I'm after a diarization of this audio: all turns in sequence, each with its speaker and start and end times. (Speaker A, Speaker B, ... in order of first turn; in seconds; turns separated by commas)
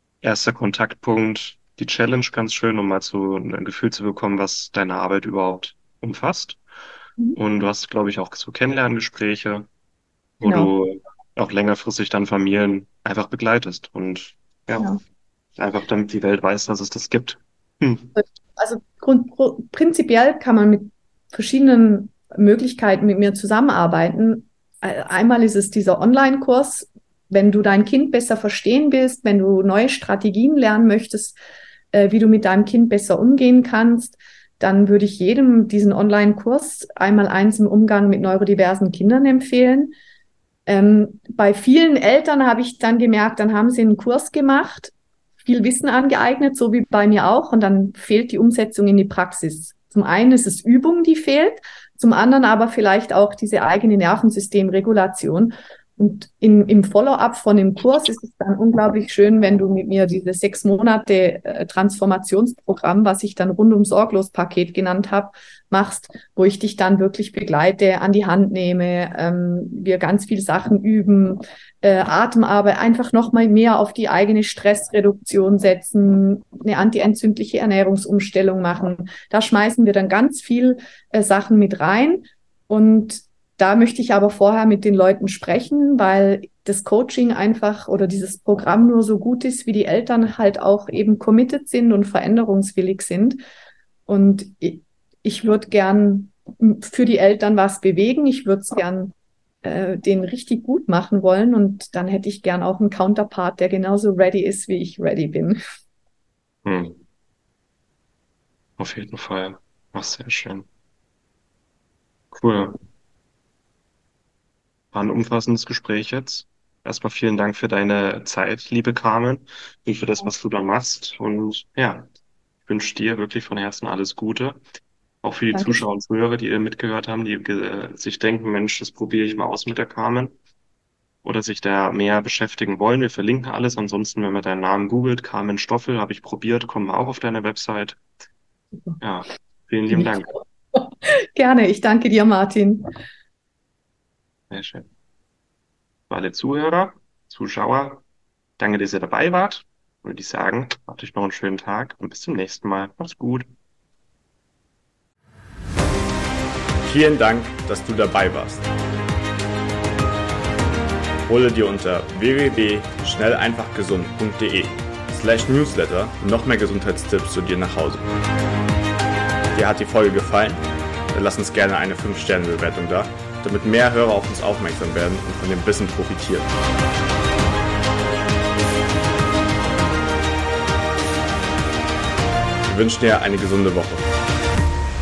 Speaker A: 0.2-6.6, Speaker A: 7.4-9.7, Speaker A: 10.4-14.9, Speaker B: 10.4-10.7, Speaker A: 15.6-18.1, Speaker B: 18.1-31.4, Speaker B: 31.9-39.9, Speaker B: 40.7-93.4, Speaker B: 94.1-105.6, Speaker A: 106.6-107.0, Speaker A: 108.8-110.7, Speaker A: 112.3-112.8, Speaker A: 114.9-122.1, Speaker A: 122.6-124.6, Speaker A: 125.2-130.3, Speaker B: 125.5-125.8, Speaker A: 131.2-138.0, Speaker A: 139.0-140.3, Speaker B: 139.9-142.9, Speaker A: 144.5-144.9, Speaker A: 146.1-148.0, Speaker A: 148.6-153.5, Speaker C: 156.8-158.6, Speaker C: 161.3-168.1, Speaker C: 169.5-170.6, Speaker C: 171.1-176.5, Speaker C: 182.6-184.1